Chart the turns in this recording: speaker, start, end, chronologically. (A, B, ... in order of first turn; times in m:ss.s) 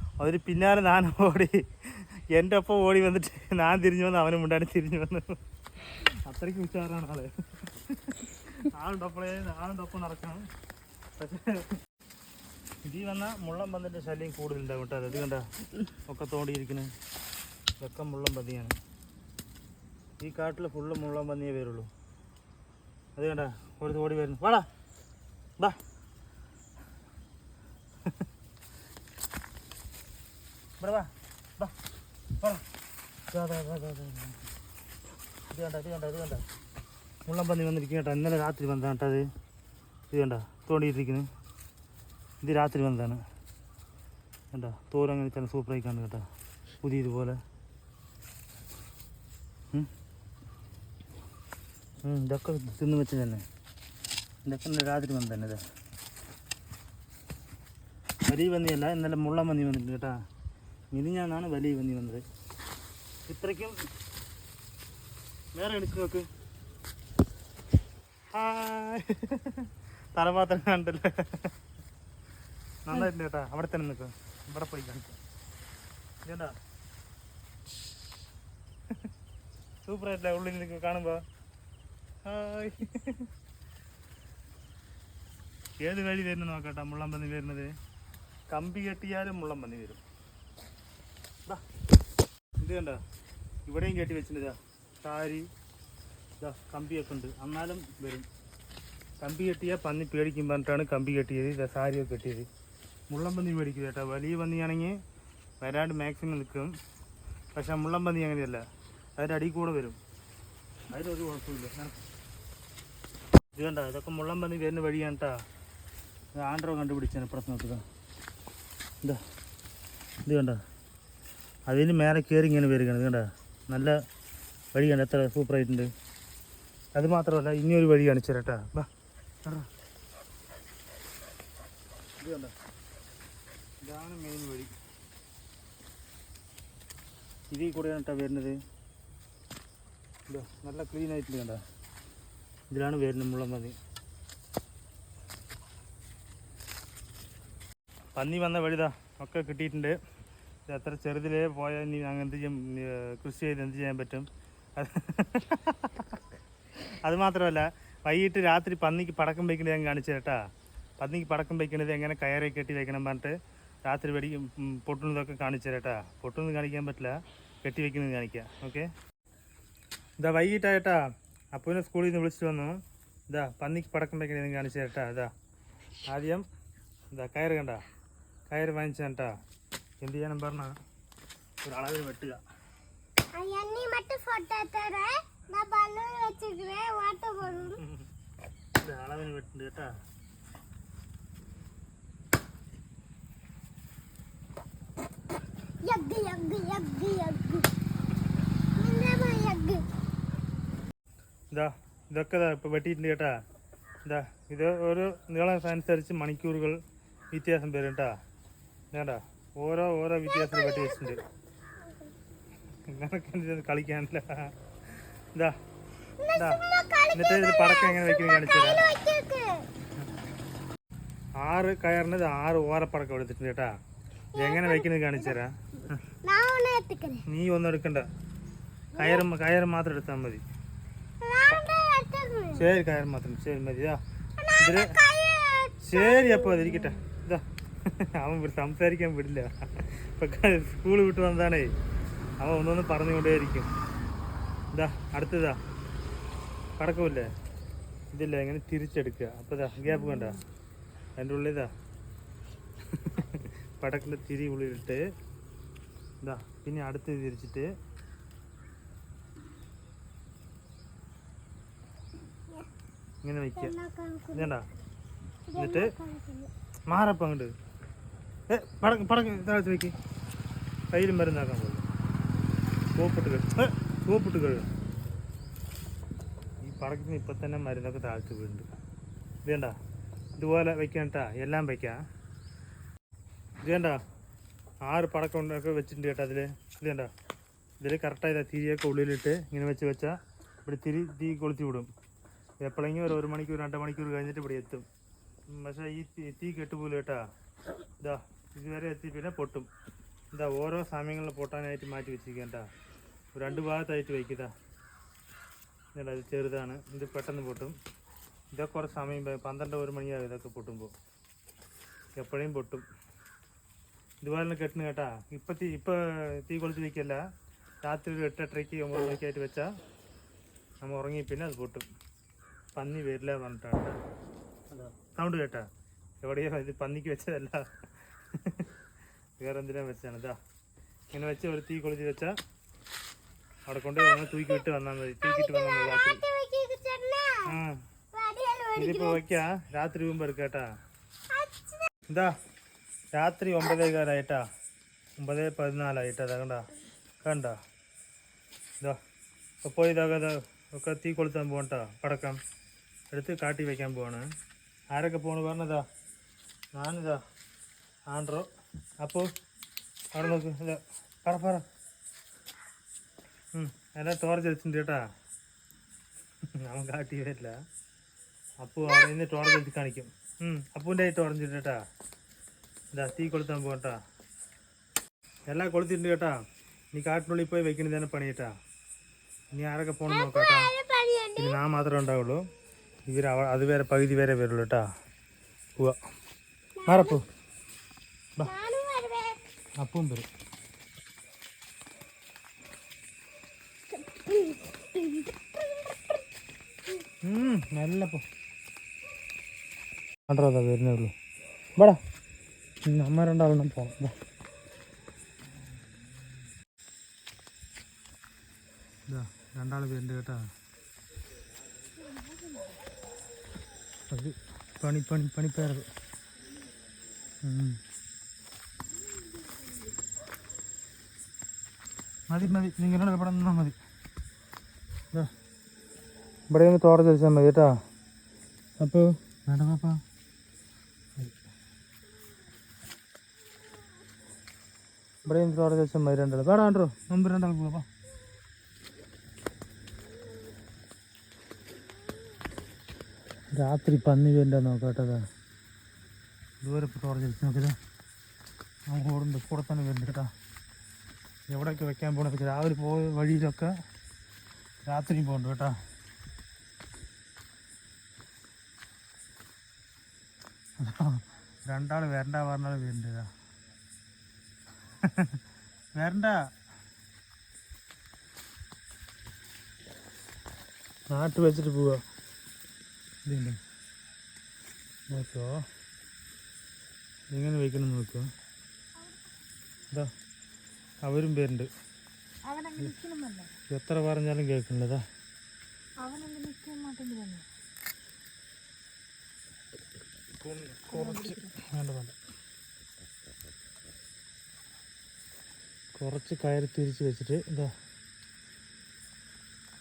0:00.2-0:10.5 A
0:11.2-0:11.8 A
0:12.8-0:15.4 A
0:16.1-0:16.9 A
0:17.8-0:18.8 A
0:20.2-0:21.9 A
0:23.2-0:24.7 A
0:30.8-0:31.8 A
0:32.4-0:32.6 A
0:33.3-0:34.5 A
0:35.5-0:36.5 A
0:37.3-0:39.3 A
0:40.1-0:41.3 A
0:42.4-0:43.2 A
0:44.5-0:46.2 A
0:46.8-0:47.4 A
0:52.0-0:53.4 A
0:54.4-0:55.6 A
0:58.3-1:00.2 A
1:00.9-1:02.2 A
1:03.3-1:03.8 A
1:05.6-1:06.3 A
1:08.3-1:11.5 A
1:12.8-1:15.2 A
1:16.2-1:16.5 A
1:19.8-1:21.2 A
1:22.3-1:23.3 A
1:25.8-1:27.7 A
1:28.5-1:30.0 A
1:32.6-1:33.0 A
1:33.7-1:35.5 A
1:36.4-1:38.3 A
1:39.2-1:42.5 A
1:43.1-1:45.0 A
1:45.6-1:46.7 A
1:47.6-1:48.6 A
1:49.2-1:50.0 A
1:50.9-1:52.0 A
1:53.6-1:55.3 A
1:56.4-1:57.8 A
2:00.2-2:00.6 A
2:01.7-2:04.0 A
2:04.7-2:05.9 A
2:07.0-2:08.9 A
2:12.2-2:12.5 A
2:13.8-2:14.7 A
2:17.5-2:18.6 A
2:20.3-2:21.6 A
2:22.7-2:23.8 A
2:28.2-2:30.0 A
2:30.7-2:36.2 A
2:37.0-2:40.4 A
2:41.0-2:43.3 A
2:43.9-2:48.9 A
2:50.2-2:51.0 A
2:51.6-2:52.8 A
2:53.3-2:55.3 A
2:56.1-2:56.4 A
2:57.1-2:57.8 A
2:58.5-2:59.3 A
3:00.0-3:00.7 A
3:01.6-3:02.4 A
3:03.3-3:07.8 B
3:07.4-3:08.1 A
3:08.8-3:09.9 A
3:15.8-3:17.7 B
3:18.8-3:19.8 B
3:21.5-3:23.3 A
3:24.1-3:26.8 A
3:27.3-3:28.1 A
3:28.9-3:31.2 A
3:30.3-3:31.2 B
3:32.9-3:34.3 A
3:35.0-3:35.6 A
3:36.2-3:39.7 B
3:36.3-3:38.9 A
3:41.4-3:43.7 A
3:44.4-3:46.0 A
3:44.4-3:45.4 B
3:46.2-3:47.2 B
3:47.3-3:48.1 A
3:49.0-3:50.4 A
3:49.0-3:49.2 B
3:51.2-3:52.6 B
3:52.5-3:54.0 A
3:54.4-3:57.0 B
3:54.6-3:55.0 A
3:55.8-4:01.7 A
4:02.4-4:03.7 A
4:04.7-4:05.6 A
4:06.8-4:07.3 A
4:08.1-4:10.4 A
4:11.2-4:11.7 A
4:12.9-4:15.0 A
4:16.2-4:17.7 A
4:23.2-4:23.7 A
4:23.6-4:24.5 B
4:24.3-4:24.6 A
4:25.5-4:26.5 B
4:25.6-4:25.9 A
4:26.9-4:27.5 A
4:28.5-4:30.0 A
4:30.9-4:31.9 A
4:33.0-4:34.7 A
4:36.6-4:38.7 A
4:39.4-4:39.7 A
4:40.4-4:42.0 A
4:43.6-4:44.0 A
4:44.9-4:47.1 A
4:47.8-4:50.1 A
4:50.7-4:51.9 A
4:52.6-4:54.8 A
4:55.5-4:57.2 A
4:58.0-4:59.7 A
5:00.3-5:02.7 A
5:03.4-5:04.5 A
5:06.0-5:07.8 A
5:08.6-5:10.9 A
5:12.2-5:12.8 A
5:14.2-5:17.2 A
5:17.8-5:19.7 A
5:20.8-5:21.9 A
5:22.8-5:24.0 A
5:24.7-5:25.6 A
5:26.2-5:27.6 A
5:28.4-5:28.7 A
5:29.4-5:30.4 A
5:31.1-5:32.4 A
5:33.7-5:36.2 A
5:34.0-5:34.6 B
5:35.2-5:37.5 B
5:37.5-5:37.8 A
5:38.1-5:39.2 B
5:38.8-5:40.7 A
5:41.3-5:41.9 B
5:43.2-5:44.4 A
5:45.2-5:46.6 A
5:47.2-5:47.6 A
5:49.6-5:52.4 A
5:53.1-5:54.3 A
5:54.9-5:55.8 A
5:56.8-5:57.2 A
5:58.1-5:58.5 A
6:00.1-6:01.6 A
6:03.6-6:05.0 A
6:06.6-6:07.6 A
6:08.6-6:11.8 A
6:13.0-6:14.0 A
6:15.5-6:16.4 A
6:16.9-6:18.5 A
6:19.6-6:20.7 A
6:20.1-6:21.6 B
6:21.4-6:22.4 A
6:23.1-6:24.8 A
6:26.8-6:27.2 B
6:26.9-6:27.2 A
6:28.4-6:29.4 B
6:29.8-6:30.3 A
6:33.9-6:36.0 B
6:37.2-6:38.2 A
6:40.3-6:41.1 A
6:42.9-6:44.1 A
6:49.1-6:50.4 A
6:54.1-6:55.9 A
6:57.4-6:57.8 A
7:02.3-7:03.8 A
7:06.5-7:07.7 A
7:08.8-7:10.0 A
7:15.2-7:17.9 A
7:23.6-7:25.2 A
7:26.6-7:27.8 A
7:28.9-7:30.3 A
7:31.5-7:33.7 A
7:34.8-7:35.8 A
7:40.8-7:43.3 A
7:45.0-7:45.4 A
7:46.0-7:46.4 A
7:51.1-7:52.0 A
7:53.3-7:53.6 A
7:55.1-7:55.6 A
7:57.3-7:58.3 A
8:01.0-8:01.7 A
8:02.6-8:03.5 C
8:03.7-8:05.0 A
8:06.0-8:07.4 C
8:10.4-8:12.2 A
8:10.9-8:11.5 C
8:16.0-8:17.7 A